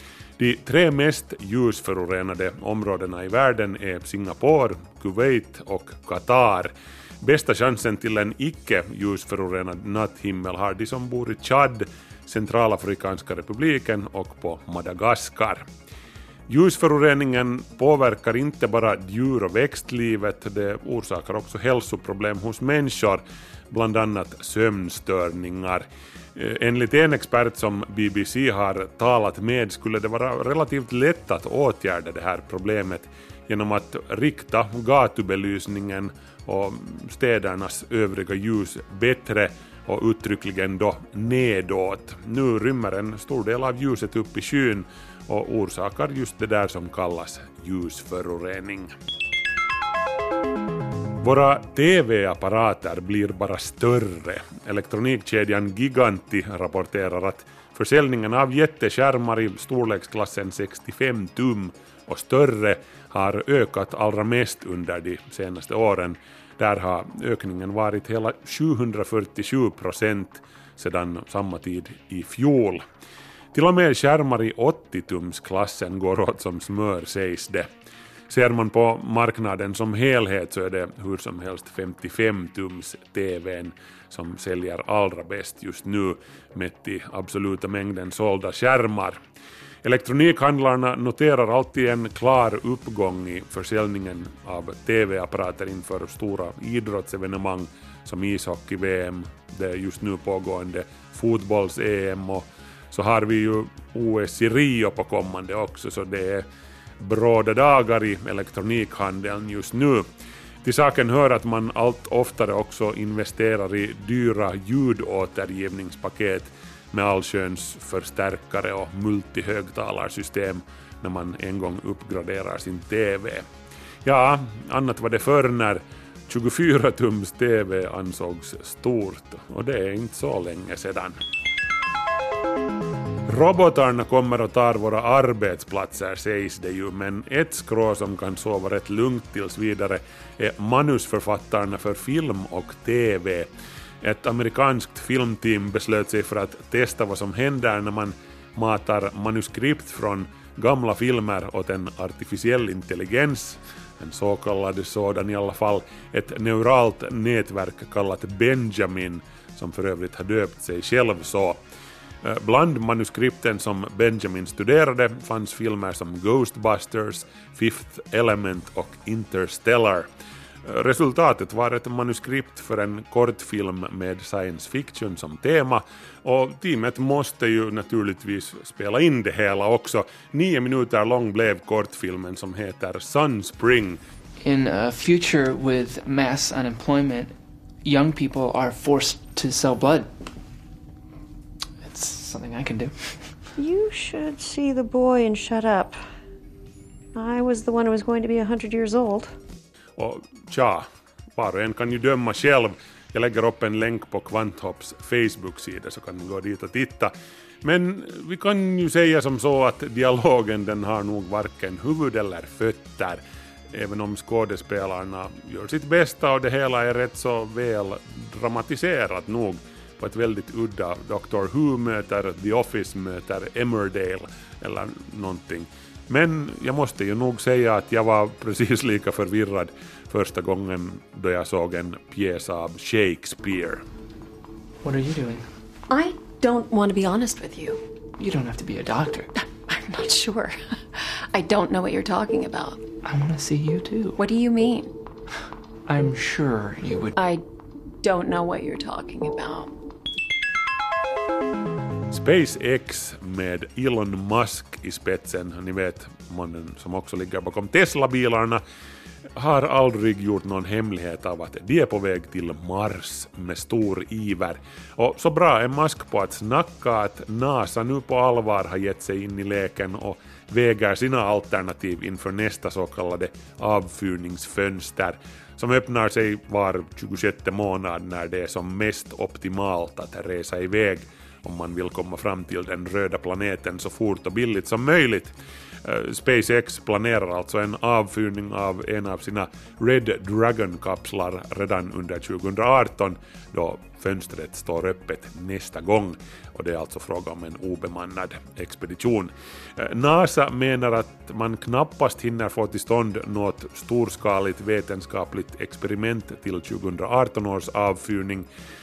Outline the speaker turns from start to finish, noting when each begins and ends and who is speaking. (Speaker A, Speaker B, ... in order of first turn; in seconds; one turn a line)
Speaker A: 0.4-15.7
Speaker A: 16.5-25.9
Speaker A: 26.4-48.9
Speaker A: 51.2-72.8
Speaker A: 73.5-77.7
Speaker A: 78.3-89.2
Speaker A: 89.8-106.5
Speaker A: 107.0-110.1
Speaker A: 110.6-123.5
Speaker A: 124.0-131.2
Speaker A: 133.3-143.5
Speaker A: 144.0-161.6
Speaker A: 162.2-170.1
Speaker A: 170.7-184.0
Speaker B: 184.4-190.1
Speaker B: 191.8-193.4
Speaker C: 193.6-196.0
Speaker C: 197.2-199.3
Speaker A: 200.0-207.1
Speaker A: 207.6-213.2
Speaker A: 213.7-233.8
Speaker B: 234.8-235.5
Speaker C: 235.9-237.8
Speaker B: 238.2-239.3
Speaker C: 239.4-242.8
Speaker B: 243.0-244.2
Speaker C: 244.2-244.9
Speaker B: 245.9-247.2
Speaker C: 247.1-247.4
Speaker C: 248.0-249.7
Speaker A: 252.1-258.6
Speaker A: 259.4-285.3
Speaker A: 285.9-308.5